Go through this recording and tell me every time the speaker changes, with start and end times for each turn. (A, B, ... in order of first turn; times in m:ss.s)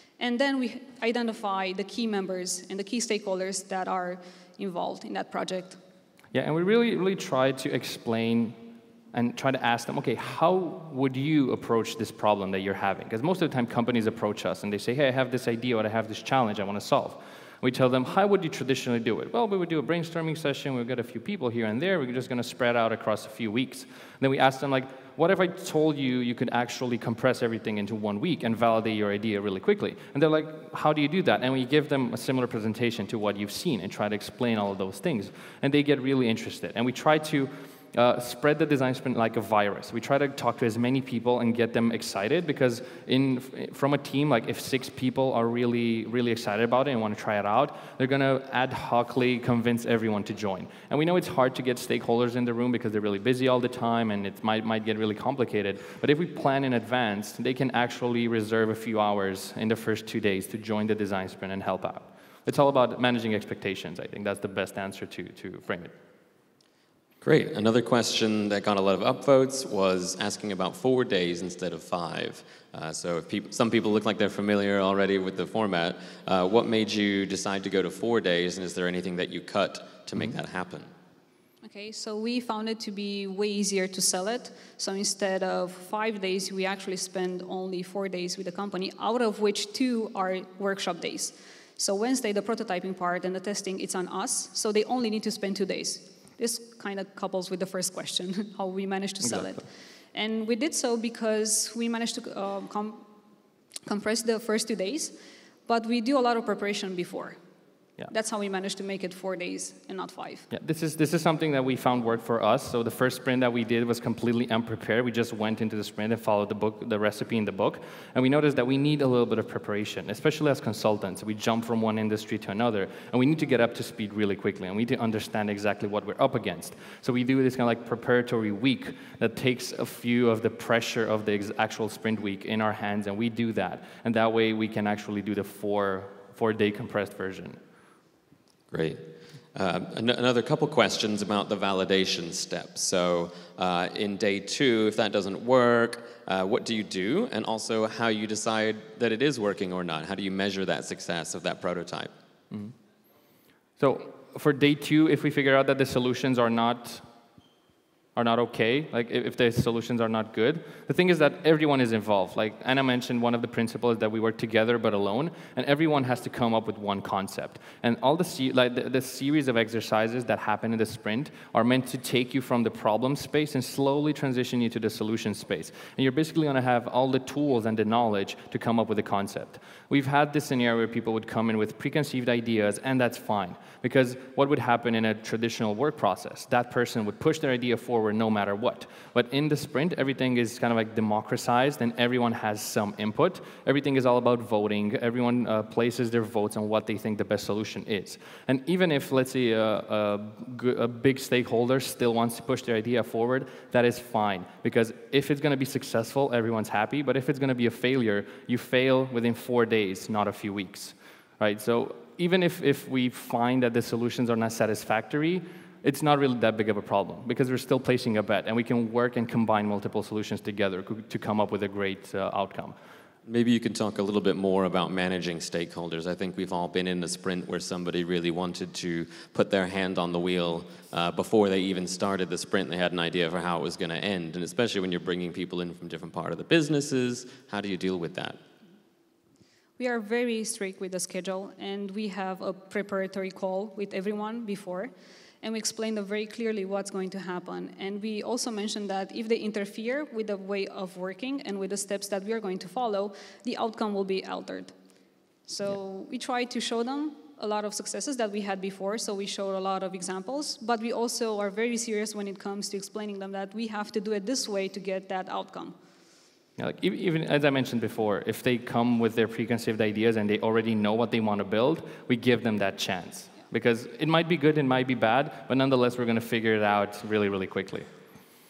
0:00.2-0:05.8 A
0:06.3-1:05.9 B
1:07.2-1:20.9 C
1:21.6-1:43.1 A
1:39.2-1:39.6 B
1:43.8-1:47.4 A
1:48.1-1:50.5 A
1:50.5-2:17.6 B
2:18.7-2:32.1 C
2:33.8-2:37.0 B
2:38.2-3:42.7 B
3:43.2-3:58.4 C
3:59.8-4:14.7 A
4:15.5-4:25.8 A
4:26.6-4:37.8 B